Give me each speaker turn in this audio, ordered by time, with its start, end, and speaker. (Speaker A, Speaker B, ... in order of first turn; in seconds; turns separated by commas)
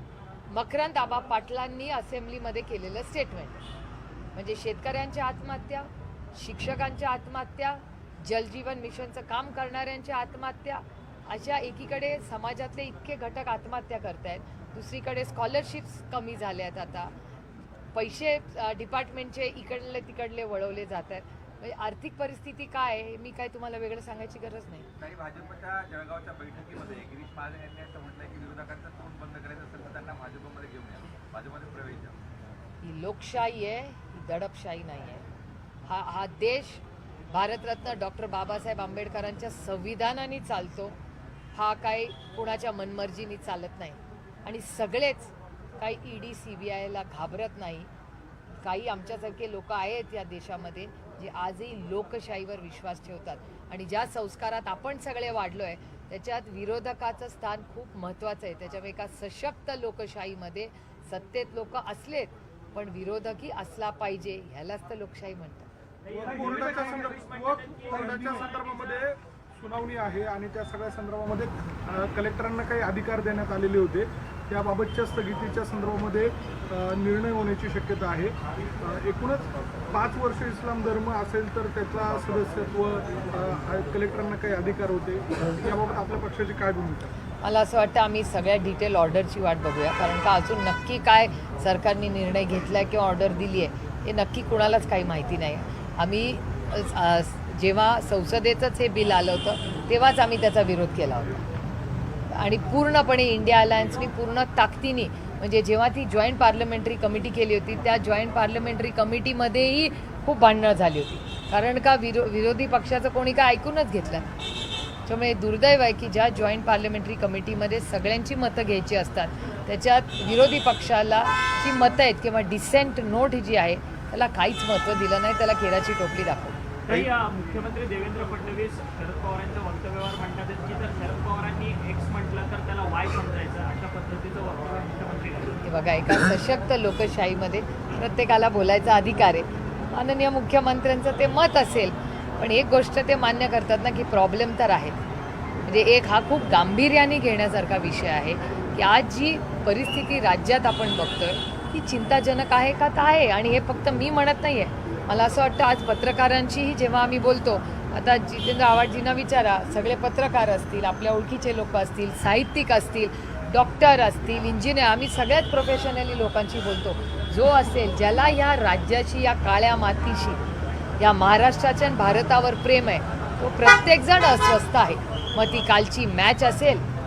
Speaker A: 0.5-3.6, Speaker A: 4.3-17.1, Speaker A: 17.9-24.9, Speaker B: 25.0-32.1, Speaker A: 32.8-35.2, Speaker A: 35.9-41.0, Speaker A: 41.5-47.9, Speaker A: 48.6-65.7, Speaker C: 66.0-69.0, Speaker D: 66.1-87.1, Speaker A: 87.4-101.4, Speaker A: 102.3-114.3, Speaker A: 115.0-126.6, Speaker C: 126.9-135.6, Speaker A: 135.6-145.0, Speaker A: 145.7-170.4, Speaker A: 171.0-176.8